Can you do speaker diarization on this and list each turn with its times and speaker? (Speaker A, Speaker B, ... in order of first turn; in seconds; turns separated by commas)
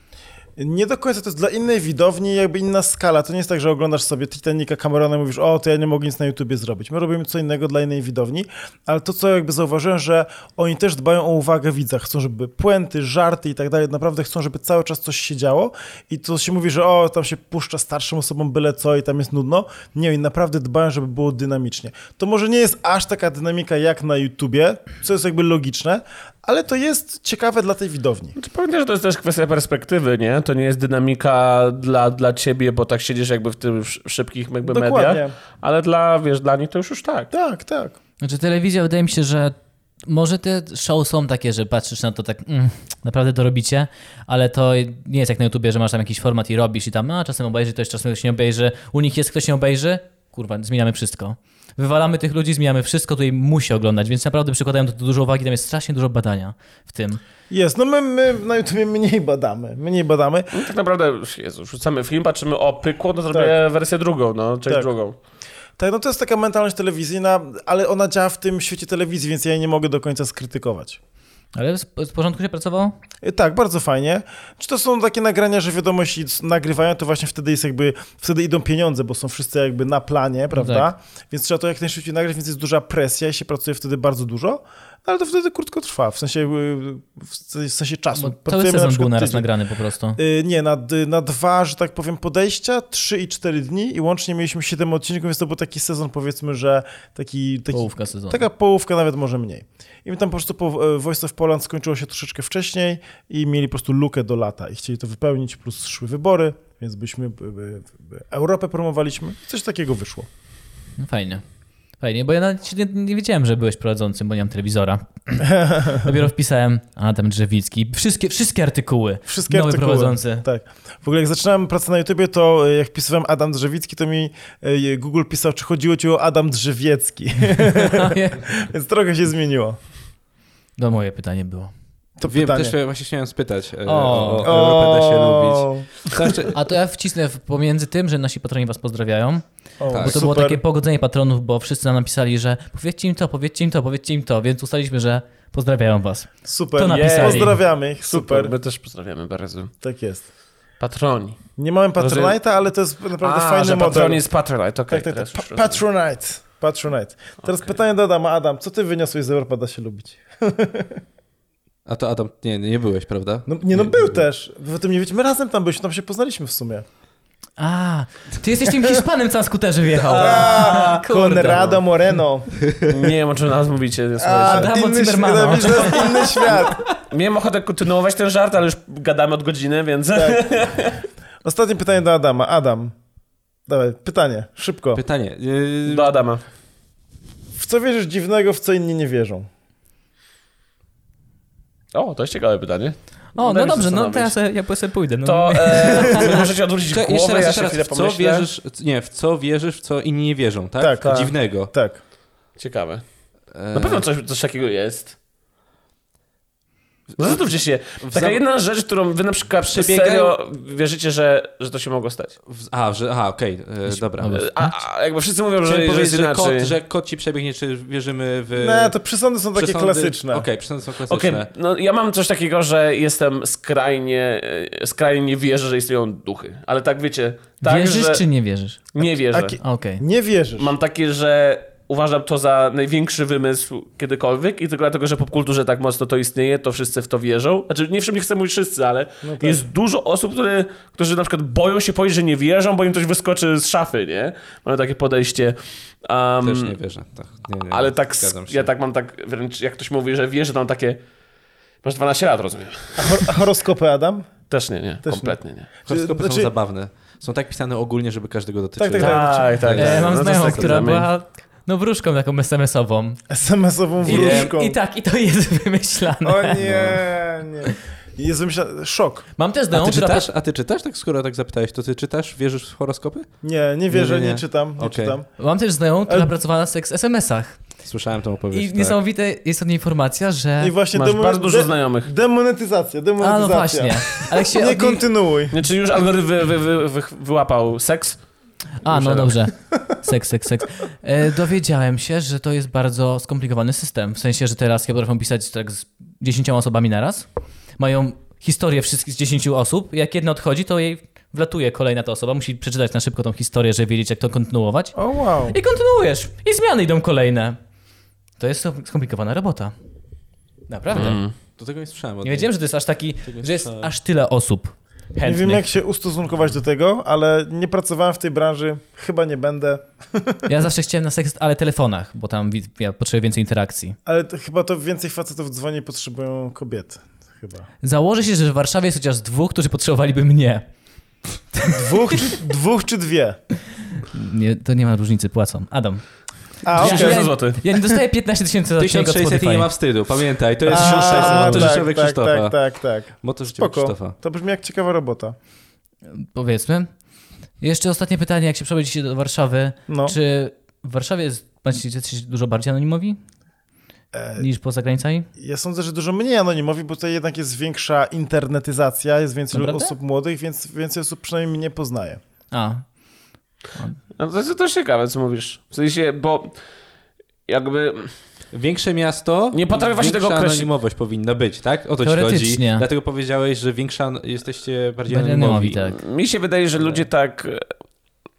Speaker A: 0.6-28.4, Speaker B: 28.4-37.3, Speaker A: 34.7-35.3, Speaker A: 37.3-38.0, Speaker C: 38.2-57.2, Speaker A: 57.5-60.5, Speaker B: 60.5-65.2, Speaker A: 65.8-71.0, Speaker C: 71.5-73.0, Speaker A: 73.2-89.5, Speaker C: 80.5-80.9, Speaker C: 88.2-90.2, Speaker A: 90.2-110.3, Speaker C: 97.7-98.4, Speaker C: 111.0-111.4, Speaker C: 112.0-120.5, Speaker A: 115.5-116.1, Speaker A: 119.3-129.8, Speaker C: 127.7-128.5, Speaker C: 130.8-131.7, Speaker A: 132.2-132.8, Speaker D: 132.3-136.6, Speaker C: 133.8-134.6, Speaker A: 134.4-135.9, Speaker C: 136.5-139.4, Speaker A: 139.8-140.6, Speaker D: 139.9-140.3, Speaker C: 140.0-147.6, Speaker A: 146.4-148.5, Speaker B: 146.8-149.7, Speaker A: 149.8-150.2, Speaker B: 150.8-151.4, Speaker A: 151.6-154.2, Speaker B: 152.0-152.4, Speaker B: 153.2-155.8, Speaker A: 154.9-161.0, Speaker D: 161.9-164.2, Speaker A: 163.5-166.9, Speaker C: 167.6-171.8, Speaker A: 170.2-173.1, Speaker B: 170.2-170.8, Speaker B: 172.8-174.7, Speaker A: 174.2-176.8, Speaker C: 174.5-176.6, Speaker B: 177.1-181.0, Speaker A: 180.1-180.4, Speaker A: 181.4-182.9, Speaker A: 183.7-185.0, Speaker D: 184.9-186.2, Speaker B: 185.8-186.4, Speaker A: 187.6-189.5, Speaker B: 191.9-194.3, Speaker C: 193.4-196.5, Speaker B: 195.2-198.5, Speaker D: 196.9-201.7, Speaker A: 200.8-202.0, Speaker B: 201.0-201.3, Speaker B: 202.6-203.0, Speaker D: 203.5-204.1, Speaker B: 203.7-205.2, Speaker B: 207.2-212.4, Speaker D: 208.0-208.4, Speaker D: 209.6-210.3, Speaker D: 212.5-214.5, Speaker C: 213.9-214.8, Speaker B: 214.3-216.7, Speaker D: 215.7-218.9, Speaker A: 218.6-220.5, Speaker D: 219.6-221.5, Speaker B: 221.1-228.2, Speaker C: 227.6-228.8, Speaker B: 228.9-229.6, Speaker A: 229.3-230.7, Speaker C: 229.6-230.0, Speaker B: 230.6-246.8, Speaker A: 239.2-239.6, Speaker D: 246.4-248.7, Speaker B: 247.7-251.0, Speaker B: 251.8-253.3, Speaker A: 253.0-254.3, Speaker B: 254.5-255.7, Speaker A: 255.0-255.4, Speaker D: 255.9-260.9, Speaker A: 255.9-256.5, Speaker A: 258.8-259.7, Speaker B: 259.0-261.1, Speaker C: 259.8-263.2, Speaker A: 263.3-264.8, Speaker D: 264.0-264.5, Speaker C: 264.0-266.6, Speaker A: 266.2-269.3, Speaker D: 266.6-267.1, Speaker C: 269.4-270.3, Speaker D: 269.7-273.3, Speaker A: 273.4-275.4, Speaker D: 273.9-275.2, Speaker C: 275.4-277.6, Speaker A: 276.1-276.3, Speaker D: 277.9-279.0, Speaker C: 278.5-280.7, Speaker A: 280.6-285.6, Speaker B: 280.9-282.1, Speaker C: 283.2-285.1, Speaker B: 285.5-288.2, Speaker C: 288.8-297.3, Speaker B: 288.9-289.4, Speaker C: 297.8-304.9, Speaker A: 304.9-305.6, Speaker C: 305.5-307.6, Speaker C: 308.4-309.7, Speaker C: 310.7-311.2, Speaker B: 310.9-311.3, Speaker D: 310.9-312.5, Speaker C: 312.2-315.7, Speaker D: 313.3-313.9, Speaker A: 315.2-320.4, Speaker C: 320.5-324.0, Speaker A: 324.1-327.7, Speaker C: 327.8-330.7, Speaker C: 331.5-332.4, Speaker A: 331.7-333.4, Speaker C: 334.1-336.1, Speaker A: 336.6-337.3, Speaker C: 336.7-339.7, Speaker B: 336.8-337.6, Speaker D: 338.8-342.6, Speaker A: 340.7-345.4, Speaker C: 340.7-341.8, Speaker D: 343.2-344.1, Speaker C: 346.1-346.9, Speaker C: 347.6-353.2, Speaker A: 349.9-350.2, Speaker A: 354.1-354.5, Speaker C: 354.4-355.3, Speaker A: 355.4-362.2, Speaker C: 359.5-359.9, Speaker C: 362.5-362.9, Speaker B: 364.2-366.6, Speaker B: 367.5-368.1, Speaker D: 368.5-375.8, Speaker B: 369.5-370.7, Speaker C: 372.0-372.9, Speaker C: 375.1-376.0, Speaker B: 375.9-377.7, Speaker D: 376.8-377.1